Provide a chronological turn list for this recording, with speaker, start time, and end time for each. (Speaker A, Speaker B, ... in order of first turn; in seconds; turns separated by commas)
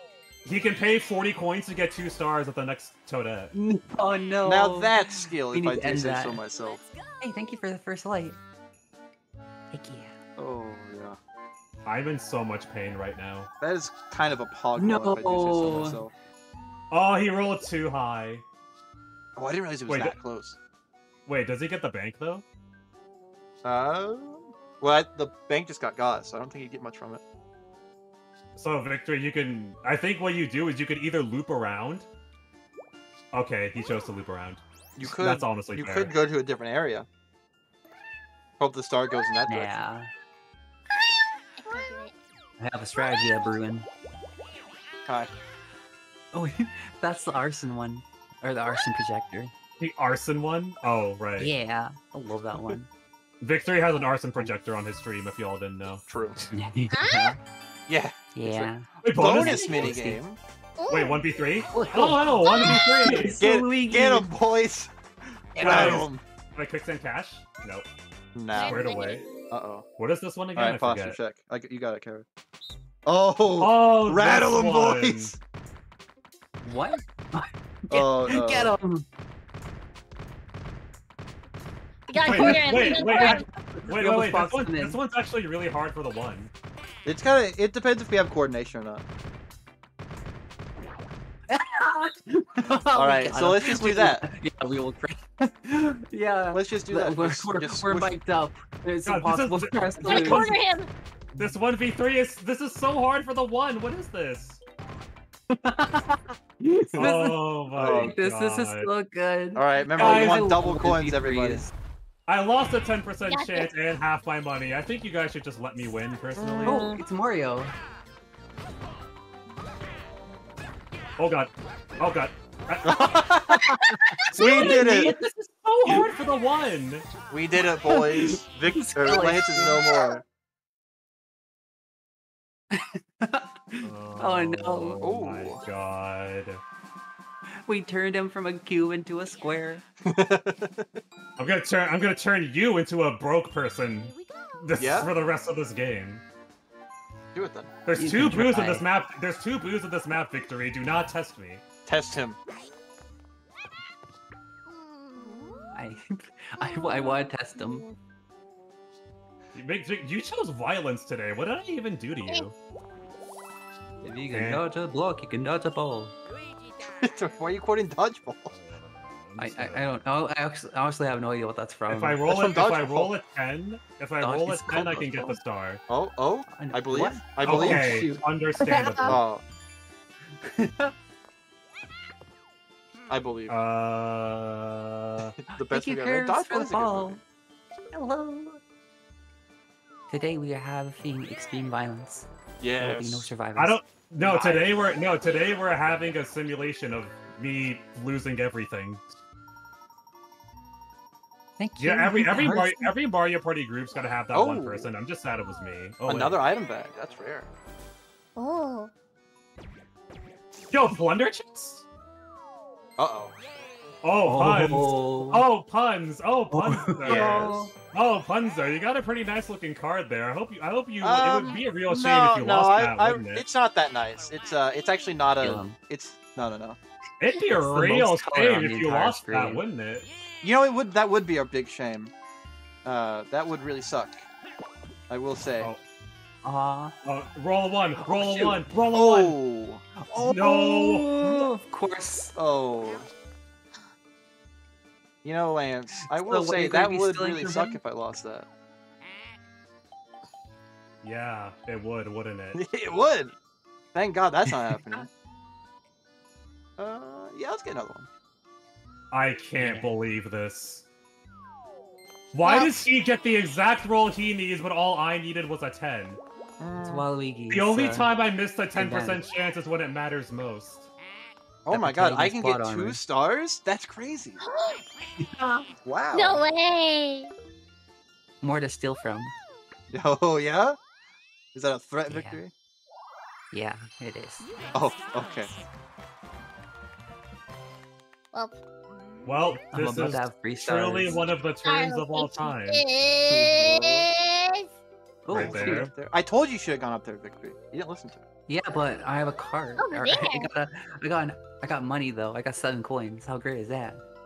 Speaker A: 0.4-3.5, Speaker B: 3.5-6.4, Speaker C: 4.4-6.8, Speaker B: 7.2-8.4, Speaker B: 9.7-10.1, Speaker C: 10.4-11.2, Speaker A: 11.8-13.5, Speaker C: 13.6-16.1, Speaker B: 14.8-16.0, Speaker A: 16.9-18.4, Speaker C: 19.4-20.6, Speaker A: 19.9-20.2, Speaker A: 21.2-22.4, Speaker C: 23.6-27.2, Speaker A: 28.6-32.1, Speaker A: 33.3-36.1, Speaker C: 35.0-37.1, Speaker C: 38.6-39.8, Speaker B: 39.5-40.1, Speaker D: 41.0-42.1, Speaker B: 42.6-43.9, Speaker B: 46.3-49.5, Speaker A: 49.8-51.5, Speaker B: 51.4-52.9, Speaker A: 53.4-56.5, Speaker C: 56.1-56.4, Speaker B: 56.5-57.4, Speaker D: 56.9-57.4, Speaker C: 57.9-60.4, Speaker B: 58.3-60.2, Speaker A: 59.0-60.2, Speaker D: 60.8-61.2, Speaker A: 60.9-63.4, Speaker B: 61.7-64.3, Speaker D: 62.4-63.3, Speaker C: 63.4-64.9, Speaker B: 65.5-66.1, Speaker C: 65.5-66.2, Speaker A: 65.6-67.9, Speaker C: 68.3-68.9, Speaker D: 68.5-69.3, Speaker A: 68.6-69.2, Speaker C: 69.5-69.8, Speaker A: 70.0-71.2, Speaker C: 70.5-72.2, Speaker C: 73.0-75.3, Speaker A: 73.6-75.3, Speaker B: 76.6-79.0, Speaker C: 77.9-78.7, Speaker D: 82.1-83.5, Speaker B: 82.2-85.0, Speaker A: 82.2-86.5, Speaker C: 87.0-89.0, Speaker B: 91.5-100.5, Speaker C: 92.9-94.2, Speaker C: 96.5-98.2, Speaker A: 99.0-100.7, Speaker D: 100.0-100.9, Speaker A: 101.3-104.6, Speaker B: 105.5-111.7, Speaker A: 107.0-108.9, Speaker C: 107.8-108.2, Speaker C: 109.5-111.7, Speaker A: 110.0-110.6, Speaker A: 112.3-117.0, Speaker D: 113.3-113.7, Speaker C: 116.3-117.0, Speaker B: 116.7-117.7, Speaker A: 121.2-123.2, Speaker C: 122.8-123.8, Speaker B: 123.5-126.1, Speaker D: 123.9-124.2, Speaker A: 124.3-125.2, Speaker C: 124.3-125.1, Speaker A: 125.8-127.0, Speaker C: 127.3-130.2, Speaker B: 127.9-130.1, Speaker B: 132.7-135.0, Speaker A: 133.8-136.6, Speaker C: 135.0-135.6, Speaker B: 137.4-139.8, Speaker C: 140.0-141.0, Speaker A: 141.4-146.2, Speaker C: 144.8-145.1, Speaker C: 147.3-147.7, Speaker A: 147.8-151.6, Speaker B: 147.9-148.8, Speaker C: 151.8-152.4, Speaker D: 154.7-155.8, Speaker B: 155.7-157.8, Speaker D: 156.6-157.9, Speaker A: 159.5-162.5, Speaker B: 164.0-166.2, Speaker A: 164.3-164.6, Speaker C: 166.9-168.5, Speaker A: 168.5-169.8, Speaker B: 169.4-172.2, Speaker A: 171.9-175.8, Speaker C: 172.3-173.1, Speaker B: 174.2-175.4, Speaker C: 175.9-177.9, Speaker B: 176.5-179.2, Speaker A: 177.4-179.2, Speaker C: 179.1-179.4, Speaker B: 180.4-180.9, Speaker C: 183.1-183.5, Speaker A: 183.5-185.3, Speaker C: 185.5-187.2, Speaker B: 185.5-187.2, Speaker B: 187.9-188.6, Speaker B: 190.1-192.3, Speaker C: 192.6-193.3, Speaker B: 192.8-194.6, Speaker A: 193.5-199.1, Speaker C: 194.2-194.8, Speaker B: 201.6-202.9, Speaker A: 201.8-206.4, Speaker C: 204.3-204.9, Speaker C: 206.1-207.5, Speaker D: 208.3-208.9, Speaker A: 210.7-211.8, Speaker C: 213.0-213.3, Speaker A: 214.0-223.4, Speaker B: 214.2-215.4, Speaker B: 216.5-217.7, Speaker C: 217.0-217.7, Speaker C: 221.0-226.8, Speaker B: 225.4-225.8, Speaker A: 227.2-230.1, Speaker B: 227.5-229.6, Speaker C: 230.4-232.1, Speaker C: 232.8-234.2, Speaker C: 235.1-235.7, Speaker B: 236.4-236.9, Speaker A: 237.0-239.4, Speaker B: 238.0-238.6, Speaker C: 238.9-239.8, Speaker B: 240.0-242.3, Speaker A: 240.1-241.5, Speaker C: 242.3-243.1, Speaker C: 245.2-248.5, Speaker B: 246.1-247.8, Speaker A: 251.0-252.6, Speaker C: 252.5-253.3, Speaker C: 253.9-255.1, Speaker C: 256.8-258.1, Speaker A: 259.1-260.8, Speaker B: 259.6-259.9, Speaker A: 262.3-266.2, Speaker D: 262.4-262.8, Speaker C: 266.6-267.1, Speaker B: 266.8-268.1, Speaker A: 267.5-270.9, Speaker B: 268.7-269.2, Speaker C: 271.6-274.4, Speaker B: 271.7-273.0, Speaker D: 274.4-274.8, Speaker B: 275.2-275.7, Speaker C: 275.8-276.4, Speaker D: 276.1-277.3, Speaker B: 278.4-279.3, Speaker C: 279.9-280.8, Speaker C: 281.5-282.5, Speaker B: 282.1-282.4, Speaker B: 283.5-284.6, Speaker C: 284.7-285.5, Speaker D: 288.3-288.6, Speaker A: 289.2-292.8, Speaker B: 289.7-291.2, Speaker D: 291.6-294.7, Speaker C: 293.3-294.1, Speaker B: 295.2-295.9, Speaker A: 295.3-295.9, Speaker C: 295.3-298.2, Speaker B: 298.5-304.0, Speaker D: 299.8-300.5